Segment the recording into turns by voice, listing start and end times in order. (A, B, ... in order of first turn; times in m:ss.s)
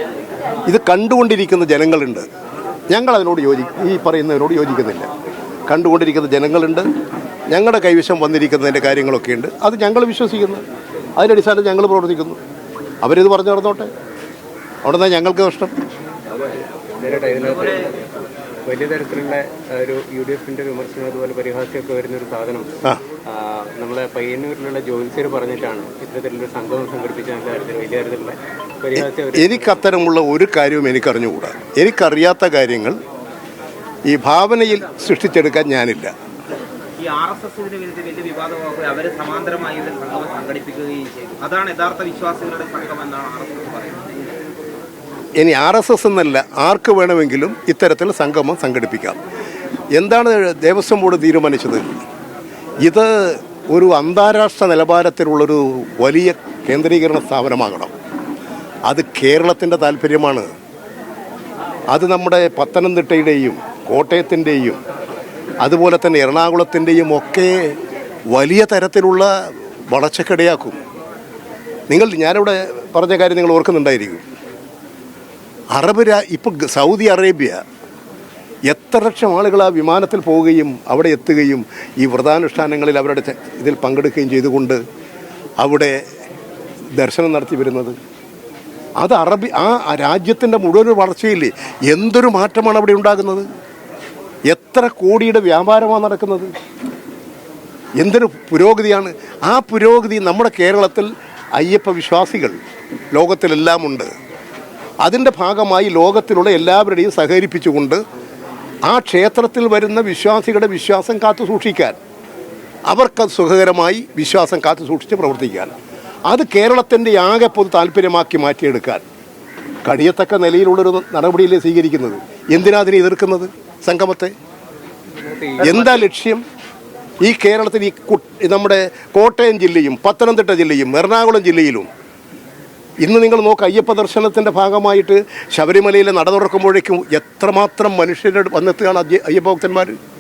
0:00.7-0:02.3 A
0:02.9-0:05.1 A
0:05.7-0:06.9 A
0:07.5-0:10.6 A
0:11.2-0:12.4 A
0:13.0-0:13.9 A
0:14.8-0:15.7 A
0:17.0-0:18.0 B
0:17.4-0:17.8 C
0:18.7-0:29.8 B
0:29.0-0:33.0 A
0:34.1-0:36.1 A
0:37.0-0:44.2 C
0:45.4-0:49.2 A
0:50.0-0:51.8 A
0:52.8-0:57.9 A
0:58.9-1:00.5 A
1:01.9-1:04.8 A
1:05.6-1:07.8 A
1:08.3-1:09.3 A
1:09.9-1:10.8 A
1:11.9-1:14.2 A
1:15.7-1:17.6 A
1:18.7-1:24.8 A
1:25.6-1:26.0 A
1:26.9-1:28.0 A
1:29.0-1:33.5 A
1:34.5-1:36.5 A
1:38.0-1:42.6 A
1:43.1-1:44.1 A
1:45.0-1:48.0 A
1:48.9-1:52.0 A
1:52.9-1:55.7 A
1:56.3-1:59.0 A
1:59.8-2:04.3 A
2:05.2-2:06.1 B
2:05.6-2:06.4 A
2:07.2-2:11.9 A
2:13.0-2:20.0 A